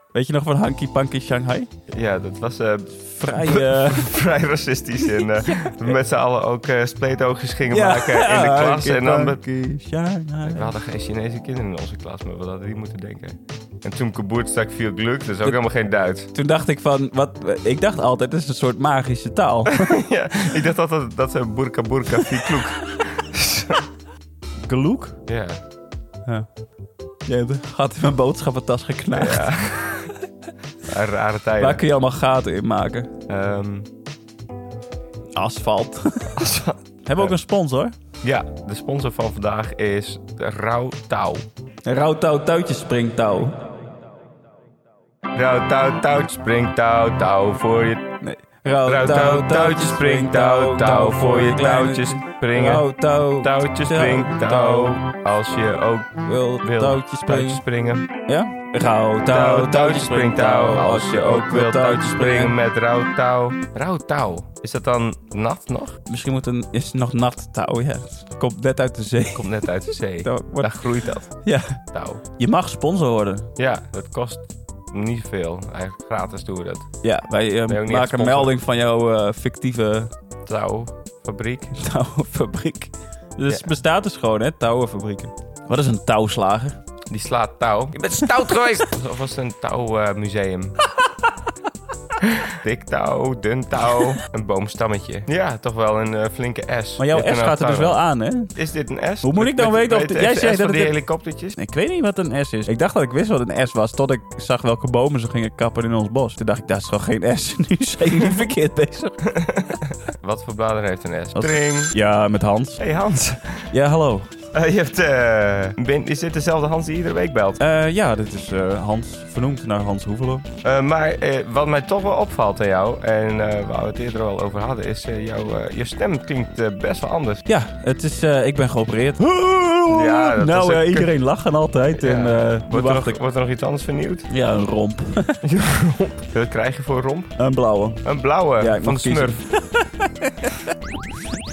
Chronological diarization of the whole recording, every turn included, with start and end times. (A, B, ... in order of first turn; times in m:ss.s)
0:00.1-0:01.7 A
0:01.9-0:09.4 B
0:03.1-0:04.1 A
0:05.0-0:06.0 A
0:07.7-0:10.7 A
0:10.4-0:16.3 B
0:16.3-0:20.0 A
0:19.7-0:23.8 B
0:24.6-0:25.2 A
0:25.3-0:25.6 B
0:27.2-0:29.5 A
0:29.1-0:30.1 B
0:30.8-0:31.8 B
0:31.6-0:33.1 A
0:33.3-0:33.9 B
0:35.3-0:36.5 A
0:36.4-0:37.3 B
0:37.0-0:37.9 A
0:38.2-0:41.4 B
0:41.8-0:43.7 A
0:45.3-0:48.2 B
0:48.2-0:55.0 A
0:48.8-0:58.1 B
0:56.2-0:57.6 A
0:58.2-1:02.6 A
0:59.3-1:06.0 B
1:06.1-1:13.5 A
1:09.3-1:12.2 B
1:13.6-1:16.9 B
1:17.0-1:20.1 A
1:17.7-1:18.6 B
1:20.4-1:21.8 B
1:21.8-1:26.8 A
1:27.1-1:30.7 B
1:32.2-1:38.0 B
1:37.0-1:38.5 A
1:38.5-1:41.6 B
1:39.2-1:41.0 A
1:41.5-1:49.2 A
1:49.4-1:51.9 B
1:51.3-1:52.8 A
1:52.8-1:53.7 B
1:53.7-1:54.3 A
1:54.5-1:57.6 B
1:57.6-2:00.5 A
2:00.6-2:07.4 B
2:07.5-2:13.2 A
2:09.9-2:11.1 B
2:12.0-2:14.3 B
2:14.3-2:15.4 A
2:15.4-2:17.4 B
2:17.4-2:18.0 A
2:18.0-2:19.4 B
2:18.6-2:20.7 A